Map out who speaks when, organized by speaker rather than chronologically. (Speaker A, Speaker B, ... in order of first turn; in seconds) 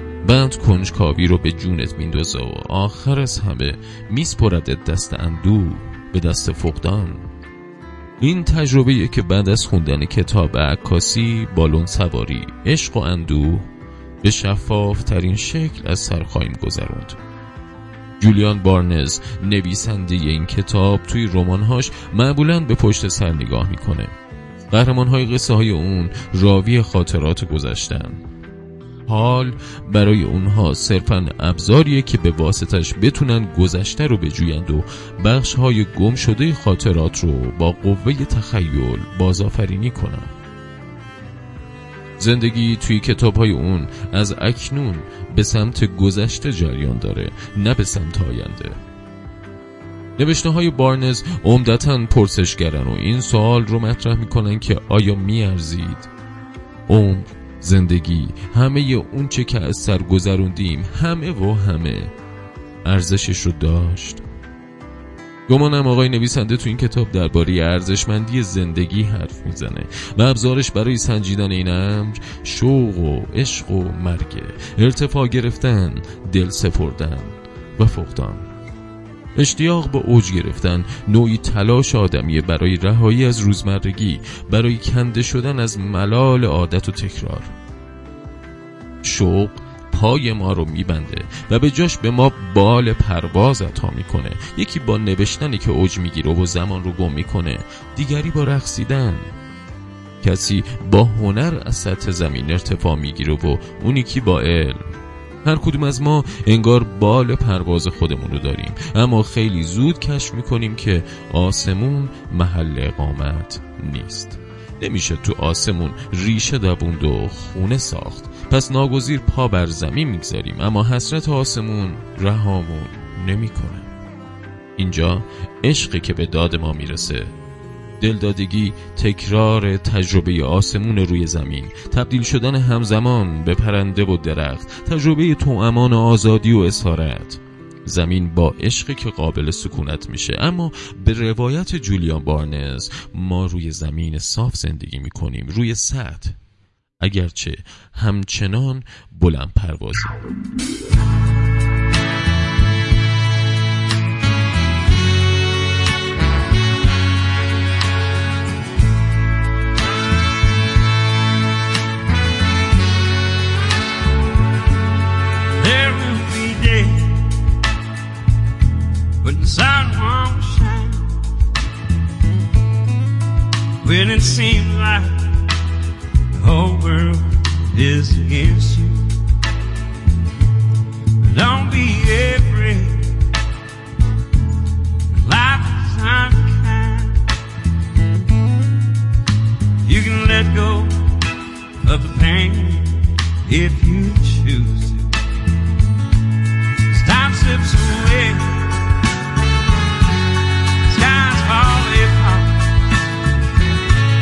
Speaker A: 0.2-7.3, 8.2-13.7, 14.2-17.2, 18.2-24.1, 24.7-28.2, 29.1-40.3, 42.2-48.8, 50.2-56.1, 56.9-62.1, 62.8-64.2, 65.5-78.5, 79.3-87.5, 89.0-99.3, 100.2-123.9, 124.8-127.3, 128.0-146.4, 147.0-150.2, 166.6-166.9, 169.2-170.8, 173.8-175.0, 177.2-178.9, 181.2-182.9, 185.2-186.8, 189.8-191.0, 191.8-192.8, 193.4-194.4
Speaker B: 165.6-167.4, 169.2-171.2, 173.9-175.5, 176.4-179.0, 182.8-183.2, 186.1-187.3, 189.9-190.2, 191.0-191.3, 191.9-195.1, 196.9-198.8, 200.8-202.8